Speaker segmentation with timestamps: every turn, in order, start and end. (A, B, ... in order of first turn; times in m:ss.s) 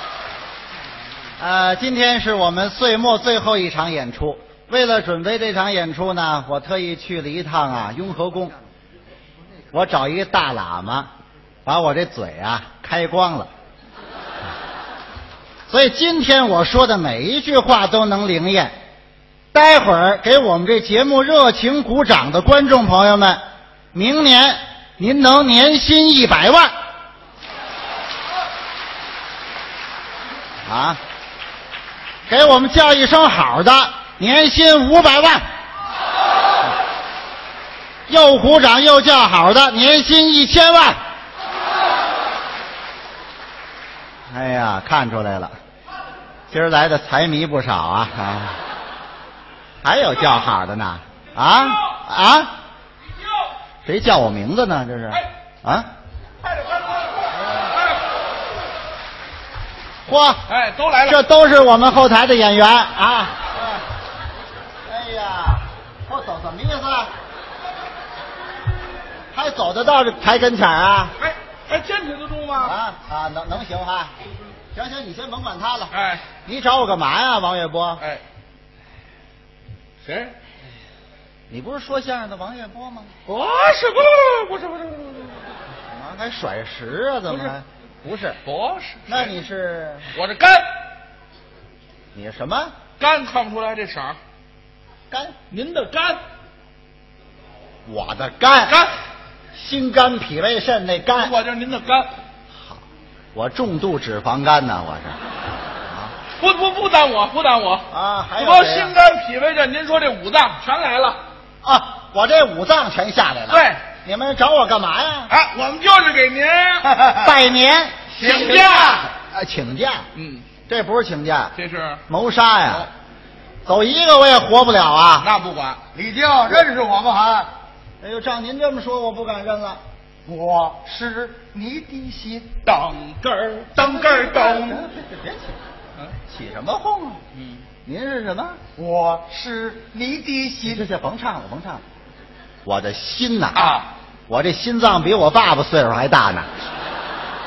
0:01.4-0:08.6 A
0:09.7-0:11.1 A
0:11.6-0:13.5 A
0:15.7-0:18.7 A
0:19.5-0:23.4 A
0:23.9-0:26.7 A
0:30.6-0:31.0 A
0:32.3-0:35.4 A
0:38.1-0:41.0 A
0:44.3-0:45.5 A
0:46.5-0:48.6 A
0:49.8-0:52.5 A
0:53.8-0:55.9 A
0:56.4-0:58.0 B
1:00.0-1:00.4 A
1:00.5-1:01.2 B
1:01.0-1:03.8 A
1:04.8-1:07.1 A
1:09.3-1:11.1 A
1:11.2-1:12.8 B
1:12.6-1:14.1 A
1:14.7-1:18.0 A
1:15.9-1:16.3 B
1:20.0-1:20.3 B
1:21.5-1:23.1 A
1:23.2-1:25.4 B
1:25.9-1:28.4 A
1:27.3-1:27.5 B
1:28.4-1:29.3 B
1:29.1-1:30.1 A
1:30.1-1:30.6 B
1:32.1-1:32.7 A
1:33.0-1:34.2 B
1:35.5-1:36.2 B
1:37.8-1:38.8 A
1:38.7-1:38.9 B
1:39.5-1:41.3 A
1:41.2-1:42.1 B
1:43.3-1:45.2 A
1:45.9-1:46.1 A
1:46.4-1:47.8 B
1:47.9-1:49.0 A
1:48.4-1:51.2 B
1:51.6-1:55.3 A
1:53.5-1:53.8 B
1:55.3-1:56.9 B
1:57.2-2:00.1 A
1:58.2-1:59.0 B
2:00.1-2:00.5 B
2:00.7-2:01.5 A
2:01.6-2:02.0 B
2:02.1-2:02.9 A
2:03.6-2:05.3 A
2:05.2-2:05.8 B
2:05.9-2:07.5 C
2:08.0-2:09.8 A
2:10.2-2:12.5 C
2:12.6-2:14.8 B
2:13.8-2:15.6 A
2:16.3-2:17.2 A
2:17.3-2:17.6 B
2:17.8-2:18.6 A
2:18.8-2:20.8 C
2:20.6-2:21.8 A
2:22.6-2:26.5 A
2:23.6-2:23.8 B